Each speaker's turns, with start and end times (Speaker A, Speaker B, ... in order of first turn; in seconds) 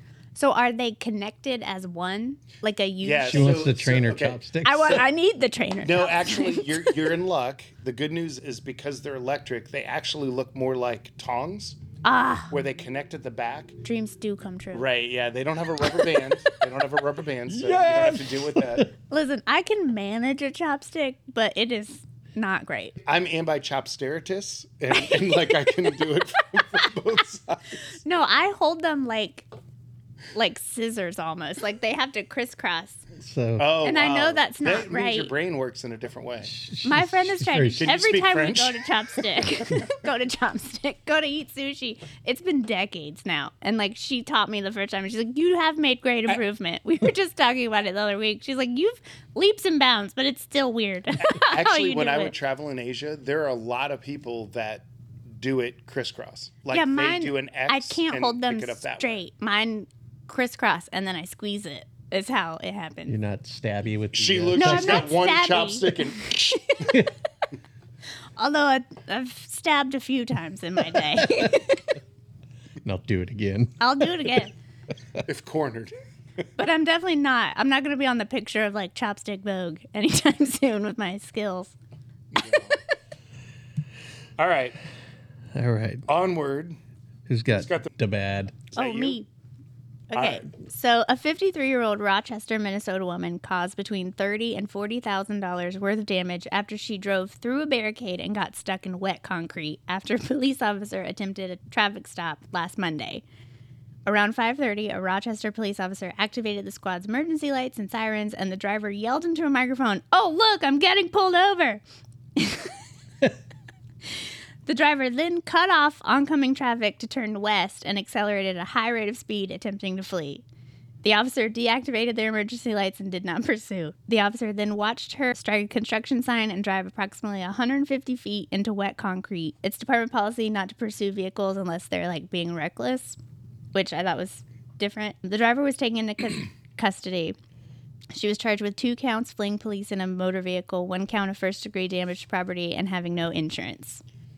Speaker A: 0.3-3.6, 4.6-6.9, 12.0-12.5, 13.8-14.8, 19.1-23.0, 25.2-25.7, 28.0-29.5, 30.3-33.0, 33.8-35.3, 36.8-52.3, 56.7-63.1, 64.5-67.0, 68.4-71.8, 73.8-74.5, 76.6-81.7, 88.8-89.3, 90.1-103.2, 104.0-111.8, 112.3-112.8, 114.7-120.4, 121.0-133.2, 133.7-137.3, 138.1-144.0
Speaker B: 3.0-4.4, 5.8-11.8, 12.5-13.8, 14.7-18.9, 23.0-28.0, 33.6-36.5, 37.8-39.8, 51.2-59.2, 64.1-67.0, 75.2-76.4, 82.3-82.8, 84.4-84.8, 86.1-86.8, 87.5-87.9, 88.7-89.2, 90.1-90.4
Speaker C: 3.3-5.0, 17.5-18.9, 33.2-33.7, 36.4-37.9, 63.1-65.2, 70.9-71.6, 72.8-74.5, 85.5-86.0, 87.3-88.6